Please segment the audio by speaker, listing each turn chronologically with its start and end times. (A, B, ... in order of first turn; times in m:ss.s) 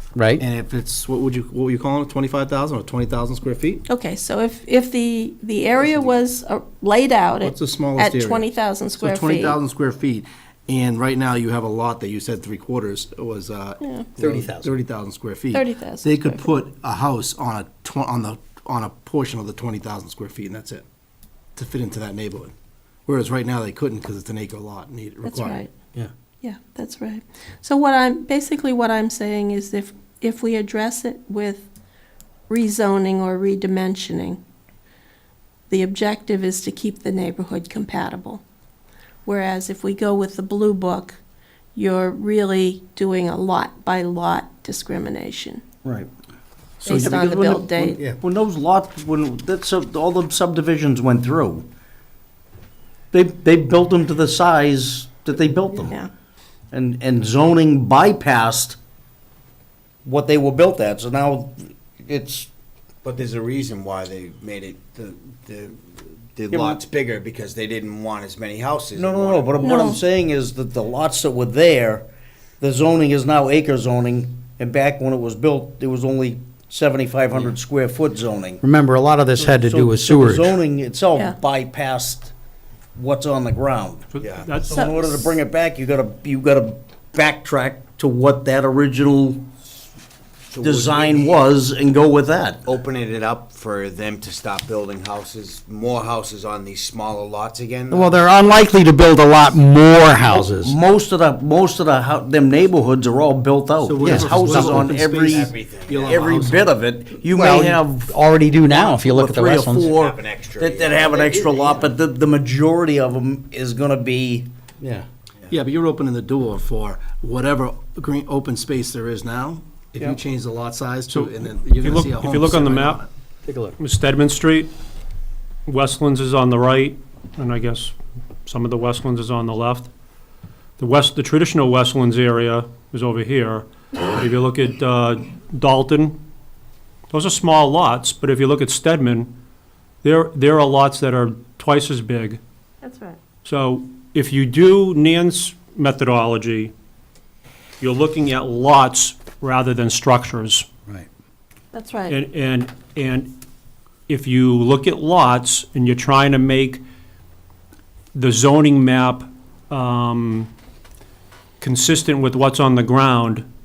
0:00.2-0:00.4 A
0:00.4-0:03.8 B
0:03.9-0:09.6 C
0:05.8-0:06.2 B
0:07.4-0:20.8 B
0:13.8-0:14.1 C
0:14.2-0:14.7 A
0:15.5-0:16.5 C
0:21.6-0:22.5 B
0:23.1-0:25.6 B
0:25.2-0:25.7 C
0:26.4-0:31.7 C
0:32.5-0:34.4 C
0:35.7-0:38.4 C
0:39.2-0:41.2 C
0:41.8-0:45.6 C
0:45.8-0:46.1 D
0:46.8-0:48.0 C
0:46.9-0:51.7 D
0:53.1-0:56.0 D
0:56.7-0:58.8 D
1:00.0-1:02.5 D
1:03.0-1:09.8 E
1:06.5-1:06.8 D
1:09.0-1:12.0 D
1:09.6-1:10.0 C
1:12.6-1:18.6 D
1:18.6-1:20.6 A
1:19.4-1:22.3 D
1:23.0-1:24.1 D
1:24.1-1:25.2 F
1:24.2-1:24.7 E
1:24.7-1:29.4 D
1:30.5-1:31.5 E
1:30.6-1:32.7 D
1:32.6-1:38.2 E
1:37.9-1:40.8 A
1:40.3-1:48.1 D
1:43.8-1:46.8 B
1:44.0-1:44.9 A
1:45.3-1:46.4 E
1:47.3-1:49.9 A
1:48.7-1:54.5 D
1:49.8-1:51.9 E
1:54.8-1:55.1 A
1:55.5-2:03.1 B
2:01.1-2:03.0 F
2:03.4-2:03.8 A
2:03.8-2:04.7 F
2:05.7-2:08.0 F
2:08.5-2:09.9 F
2:10.8-2:16.2 F
2:17.1-2:19.3 F
2:20.0-2:22.4 F
2:22.8-2:23.2 C
2:23.4-2:26.7 F
2:27.8-2:30.7 F
2:31.7-2:32.2 C
2:32.1-2:33.3 F
2:34.1-2:36.8 F
2:38.2-2:40.5 F
2:41.6-2:43.5 F